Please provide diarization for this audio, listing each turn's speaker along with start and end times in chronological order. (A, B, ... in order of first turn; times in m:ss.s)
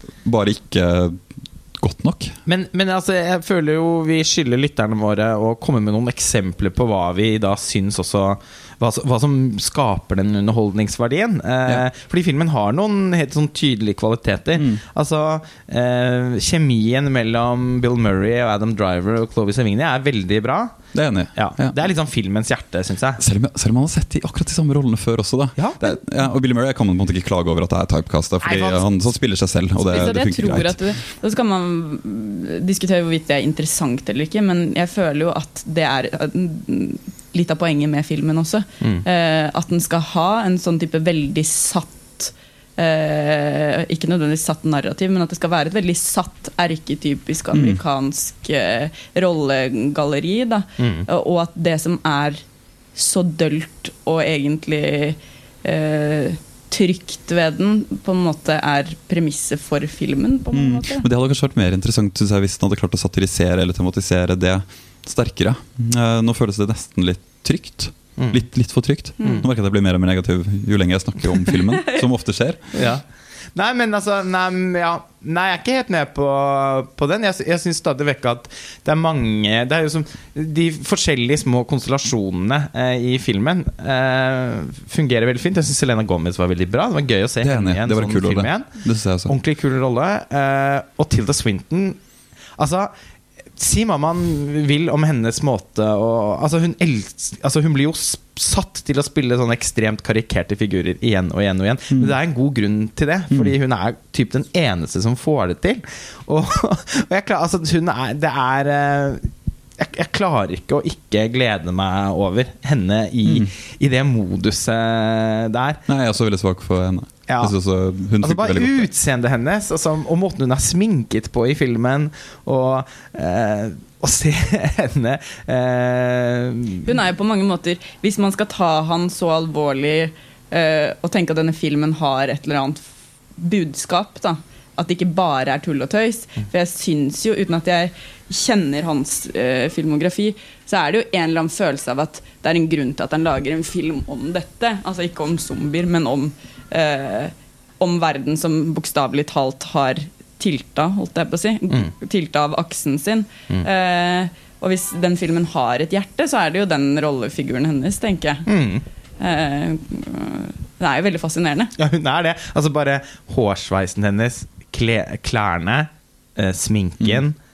0:00.2-0:02.4 A
0:02.5-0:20.8 B
0:14.6-0:14.8 A
0:20.9-0:21.8 A
0:21.4-0:23.2 B
0:23.2-0:30.8 A
0:25.6-0:26.0 B
0:28.5-0:28.8 C
0:29.8-0:52.4 C
0:47.5-0:47.8 A
0:50.8-0:51.1 B
0:53.0-1:01.1 C
1:00.5-1:12.8 A
1:08.2-1:08.4 B
1:09.2-1:09.5 B
1:09.2-1:09.5 C
1:12.7-1:13.0 B
1:13.6-1:28.7 B
1:27.4-1:29.3 A
1:29.3-1:32.0 B
1:32.6-1:32.9 B
1:33.6-1:55.8 B
1:53.2-1:53.5 A
1:55.9-1:58.9 A
1:57.3-1:57.5 B
1:58.2-2:06.9 B
2:06.8-2:12.8 C
2:13.4-2:38.5 C
2:38.5-2:38.8 B
2:39.2-2:41.7 C
2:41.8-2:47.4 B